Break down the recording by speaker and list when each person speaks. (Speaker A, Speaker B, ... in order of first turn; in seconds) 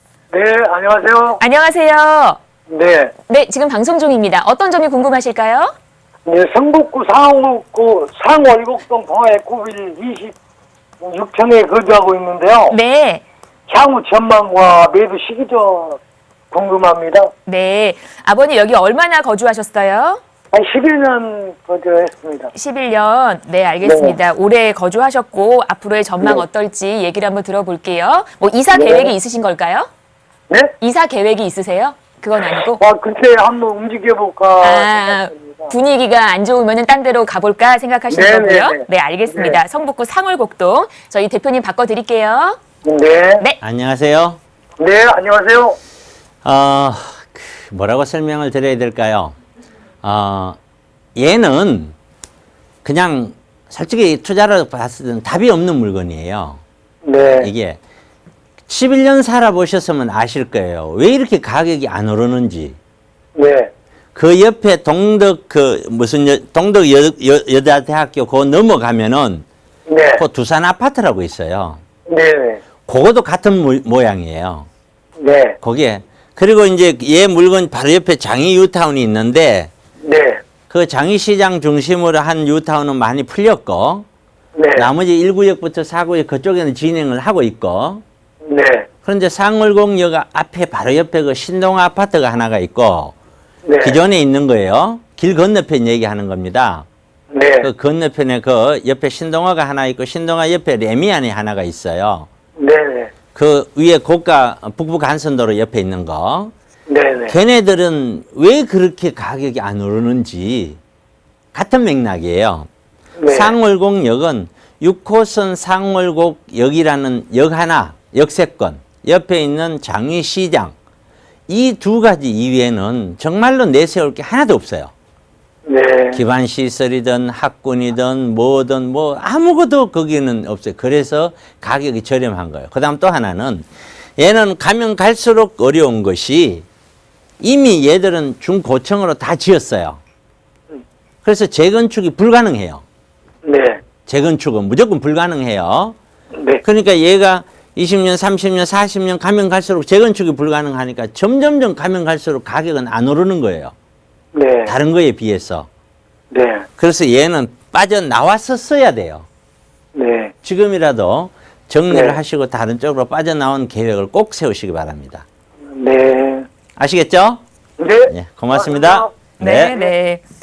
Speaker A: 0.3-1.4, 2.7-3.1, 6.2-10.3, 11.0-12.8, 13.7-16.0, 16.5-17.3, 20.5-22.5, 23.8-24.2, 28.7-29.1, 32.5-35.7, 38.1-39.6, 42.8-43.4, 44.8-45.8, 57.0-57.5, 63.4-63.7, 69.9-70.2, 72.1-72.6, 75.2-75.6, 80.0-80.4, 84.5-84.9, 88.5-88.9, 93.6-94.0, 97.3-97.7, 102.6-103.1, 106.9-107.3, 113.2-113.5, 125.7-126.2, 143.4-143.8, 146.3-146.6, 154.3-154.7, 156.3-156.6, 159.9-160.3, 161.9-162.2, 165.7-166.5, 167.8-169.1
Speaker B: 1.4-2.4, 3.3-5.7, 12.7-13.2, 17.5-20.2, 22.5-29.9, 30.8-32.8, 34.6-42.6, 169.4-170.2
Speaker C: 43.6-44.4, 46.4-49.4, 50.0-50.6, 51.1-51.9, 52.8-56.6, 57.4-57.8, 58.7-62.8, 64.1-69.5, 70.2-71.8, 72.8-74.7, 75.6-79.7, 80.7-84.0, 84.8-88.0, 89.0-93.1, 93.8-96.8, 97.6-102.3, 103.3-106.5, 107.3-110.8, 111.5-112.7, 113.3-120.7, 121.5-124.9, 126.1-133.7, 134.2-136.6, 137.4-140.0, 141.2-142.8, 144.1-146.0, 146.6-153.7, 154.7-155.7, 156.8-159.3, 160.4-165.2, 166.8-167.4, 168.1-169.7